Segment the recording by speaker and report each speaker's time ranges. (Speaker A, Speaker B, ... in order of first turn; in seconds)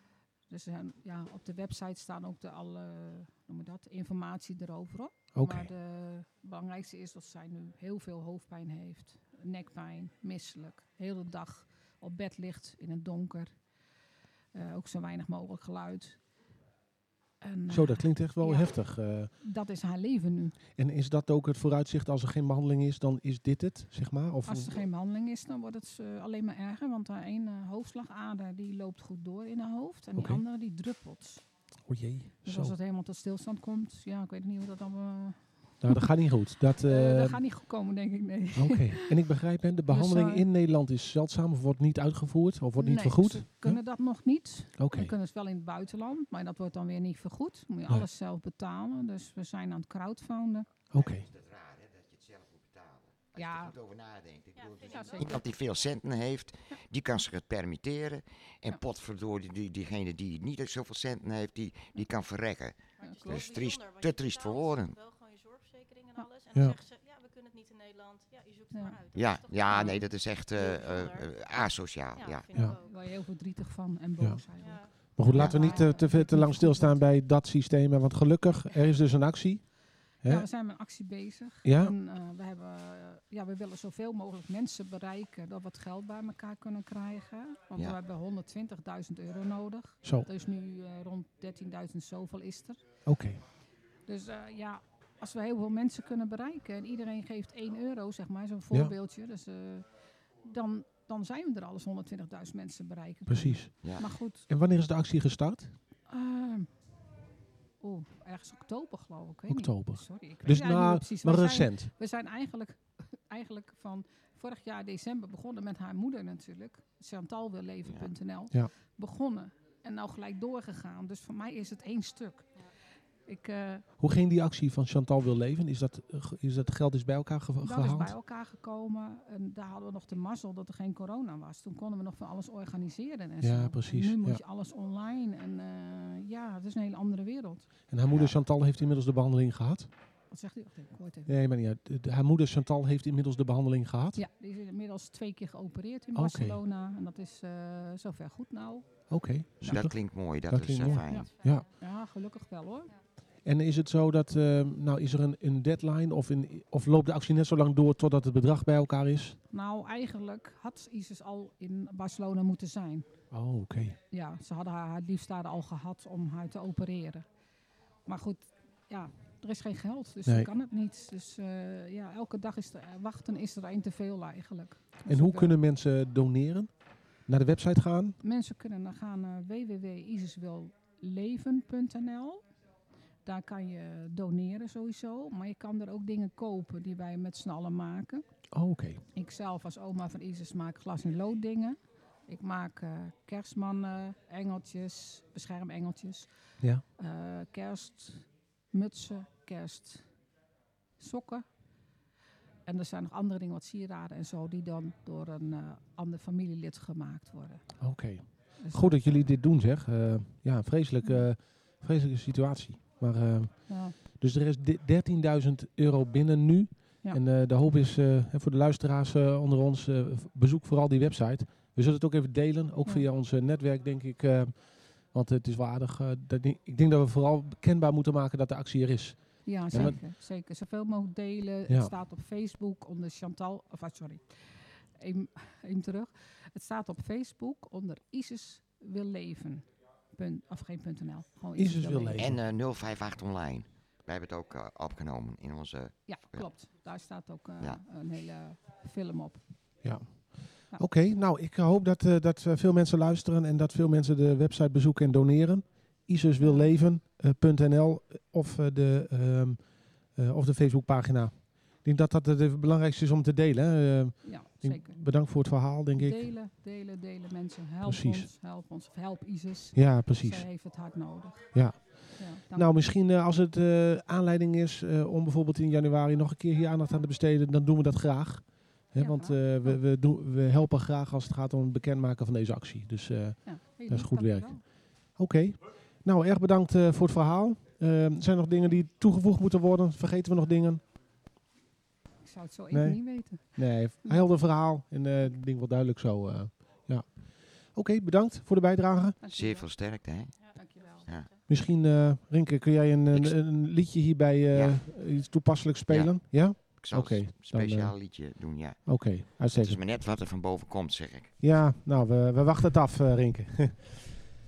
Speaker A: 0.5-13.6, 14.5-16.2, 17.4-20.6, 24.4-31.4, 32.4-36.0, 36.8-39.1, 39.9-40.4, 42.8-50.7, 53.3-53.7, 54.9-55.4, 63.0-63.4, 72.8-77.0, 80.2-92.8, 94.0-99.8, 100.4-104.5, 106.1-106.7, 107.8-122.5, 123.2-123.8, 127.6-137.7, 140.3-141.3, 144.1-148.8, 151.1-152.9, 159.5-163.1, 164.1-167.2, 168.1-175.6, 178.2-182.4, 183.2-188.2, 189.1-196.3, 197.0-200.1, 201.0-201.4, 202.7-207.7, 208.6-209.2, 213.7-213.9, 229.4-242.2, 246.1-249.4, 256.4-256.7, 264.2-265.0, 265.9-272.6, 279.0-279.8, 283.4-284.6, 292.2-294.2, 299.2-299.6, 300.5-301.1
Speaker B: 5.3-5.7, 17.7-19.3, 20.8-24.8, 30.2-30.4, 31.9-32.7, 35.8-37.4, 38.5-43.8, 44.8-45.1, 50.9-51.2, 74.2-80.5, 81.6-81.9, 93.0-93.4, 103.3-103.7, 104.5-105.7, 109.5-111.9, 124.0-128.1, 133.4-134.4, 137.9-139.9, 141.3-144.2, 146.1-146.6, 149.1-151.7, 153.4-159.4, 163.3-164.0, 175.1-176.7, 177.2-178.2, 188.5-189.0, 207.8-230.0, 241.6-242.4, 249.8-266.3, 267.8-268.3, 269.7-270.5, 271.5-290.8, 292.7-299.2, 301.5-307.9, 308.9-309.8, 311.4-314.2
Speaker C: 50.9-65.0, 69.1-72.5, 138.1-138.3, 149.6-151.3, 242.2-246.5, 299.3-300.3, 304.5-304.8, 305.9-311.3
Speaker D: 54.6-55.5, 63.0-73.0, 74.6-76.0, 150.8-151.7, 300.4-301.4